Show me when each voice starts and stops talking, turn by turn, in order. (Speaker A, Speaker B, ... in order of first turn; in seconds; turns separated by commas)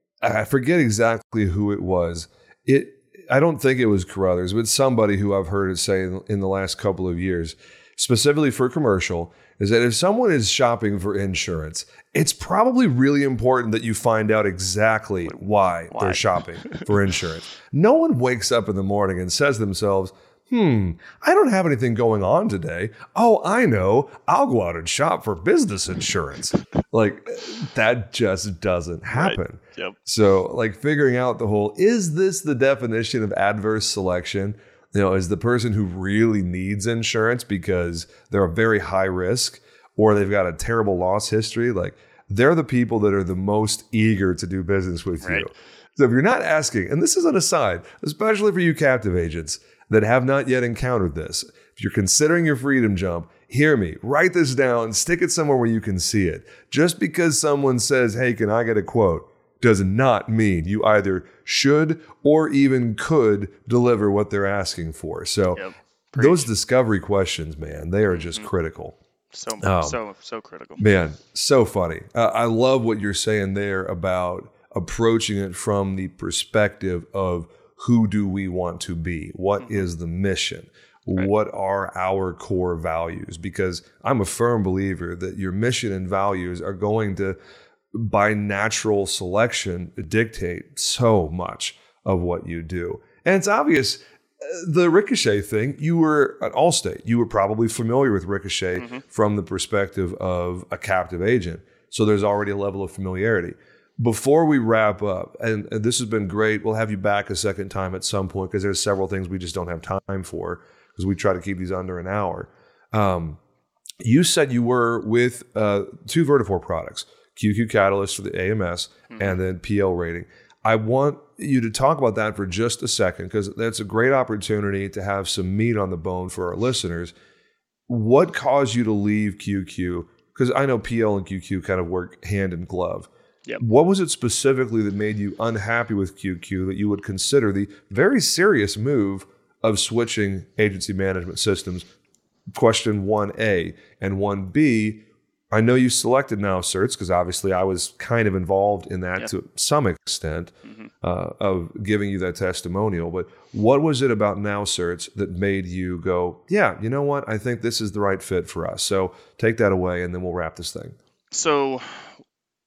Speaker A: 0.2-65.6, Speaker B: 15.3-16.9, Speaker B: 29.1-30.0, Speaker B: 65.5-66.5, Speaker A: 66.2-69.0, Speaker B: 68.2-68.5, Speaker B: 69.3-70.8, Speaker A: 69.6-70.0, Speaker A: 70.8-87.4, Speaker A: 87.9-113.4, Speaker B: 98.8-99.0, Speaker A: 114.0-127.1, Speaker B: 119.1-119.4, Speaker A: 127.9-141.9, Speaker A: 142.5-161.0, Speaker B: 161.3-161.8